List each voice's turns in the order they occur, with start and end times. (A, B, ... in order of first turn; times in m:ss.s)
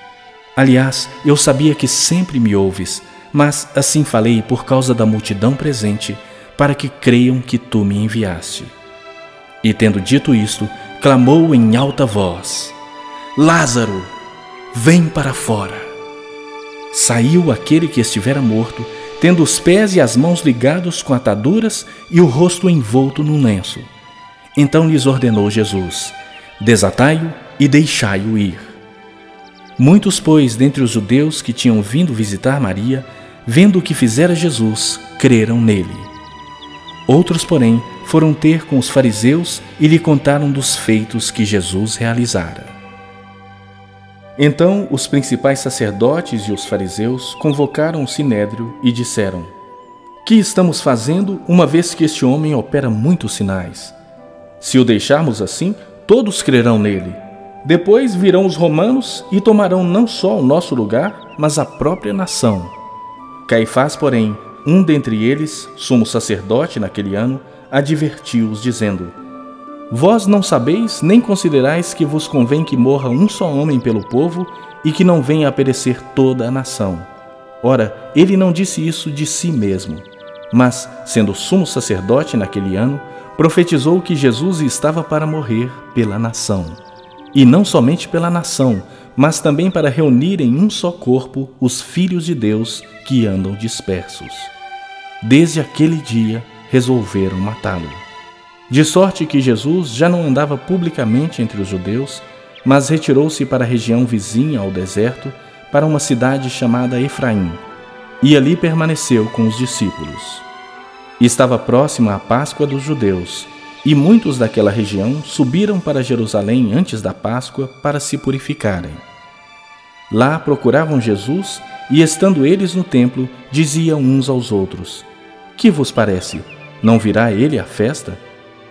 0:00.6-0:08.7 A
0:09.6-0:12.8 A
0:13.3-0:14.1 A
0:14.7-0:15.9 A
0:16.9-0:23.9 A
0:24.6-0:28.7 A
0:29.8-0:36.1 A
0:37.1-0:42.8 A
0:44.4-0:49.5 A
0:50.2-0:53.9 A
0:54.6-1:02.7 A
1:03.4-1:09.2 A
1:09.9-1:17.1 A
1:17.6-1:26.8 A
1:27.3-1:34.5 A
1:35.2-1:38.0 A
1:38.7-1:47.6 A
1:48.2-1:50.4 A
1:51.2-1:59.0 A
2:00.1-2:08.2 A